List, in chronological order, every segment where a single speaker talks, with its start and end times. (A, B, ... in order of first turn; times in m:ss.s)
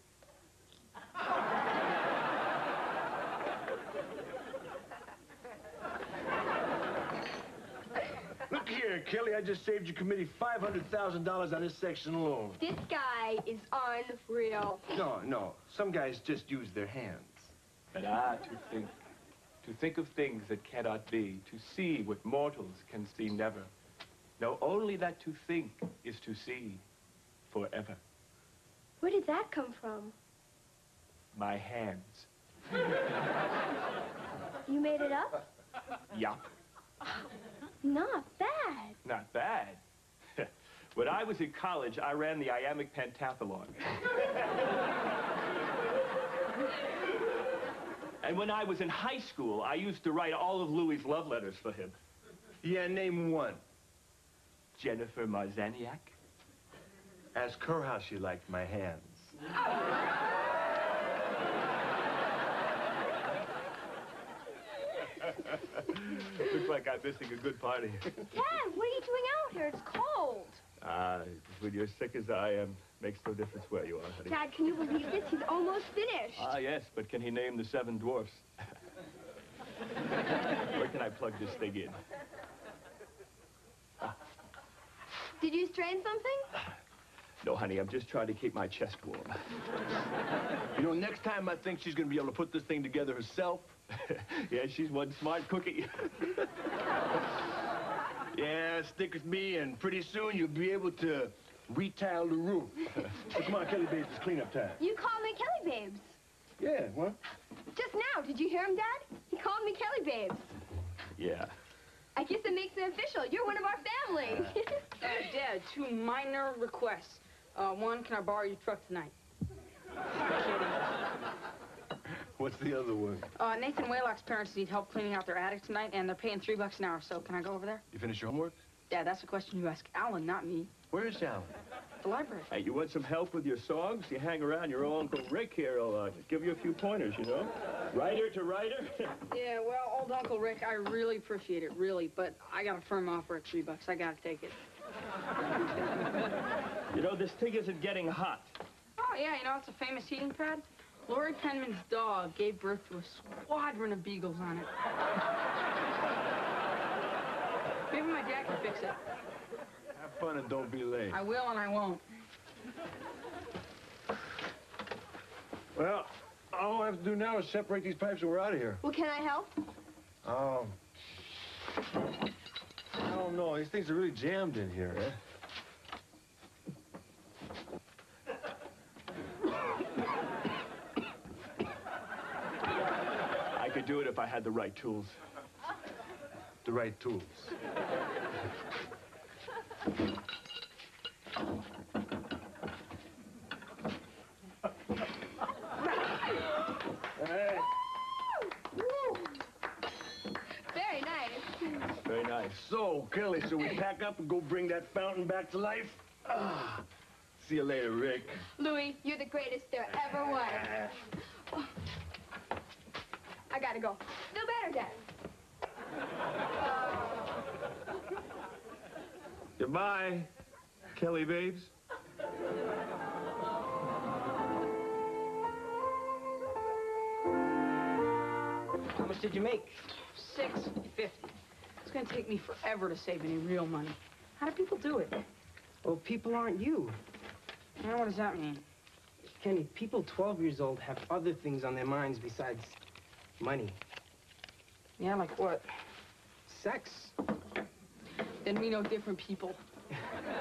0:08.5-0:12.6 A
0:12.6-0:14.8 B
0:14.9-0:17.5 A
0:17.9-0:18.9 C
0:19.6-0:23.7 C
0:24.4-0:26.8 C
0:27.5-0:28.0 C
0:29.0-0:30.1 B
0:31.3-0:32.3 C
0:34.7-0:35.4 B
0:36.1-0:36.4 C
0:37.8-0:39.0 B
0:39.0-0:39.8 C
0:40.4-0:44.4 C
0:48.2-0:52.0 C
0:52.6-0:53.6 A
0:54.8-0:56.1 C
0:57.3-0:59.3 A
1:05.4-1:08.2 C
1:08.3-1:10.6 B
1:10.8-1:14.4 C
1:14.3-1:16.5 B
1:16.4-1:18.5 C
1:20.7-1:22.0 C
1:25.4-1:26.5 B
1:27.4-1:29.4 C
1:30.7-1:33.7 A
1:33.9-1:36.5 C
1:38.3-1:44.8 A
1:44.8-1:46.2 B
1:46.6-1:47.2 A
1:47.7-1:50.5 B
1:51.2-1:51.5 C
1:52.1-1:55.1 B
1:55.0-1:59.1 D
2:00.2-2:00.8 D
2:02.3-2:03.3 A
2:03.4-2:07.8 D
2:07.9-2:08.6 A
2:08.9-2:10.7 D
2:10.9-2:11.5 A
2:12.0-2:12.5 D
2:12.5-2:19.2 C
2:19.3-2:24.5 D
2:26.9-2:28.5 C
2:29.0-2:34.7 D
2:37.9-2:39.0 D
2:39.9-2:41.2 A
2:41.1-2:42.0 D
2:45.8-2:48.8 A
2:48.8-2:49.6 B
2:50.2-2:50.8 A
2:52.9-2:55.1 A
3:03.5-3:05.2 C
3:06.6-3:07.5 A
3:17.2-3:17.7 A
3:18.8-3:19.4 B
3:20.6-3:21.9 B
3:21.9-3:22.7 C
3:22.6-3:26.8 A
3:27.4-3:28.5 A
3:28.6-3:31.7 B
3:30.5-3:30.9 A
3:33.5-3:35.0 B
3:39.6-3:40.3 C
3:40.9-3:41.7 C
3:48.9-3:49.8 E
3:50.1-3:55.2 D
3:55.8-3:57.0 E
3:57.8-3:58.6 D
3:59.3-4:02.8 E
4:03.4-4:03.8 E
4:05.0-4:05.7 D
4:06.5-4:07.1 E
4:08.4-4:09.6 D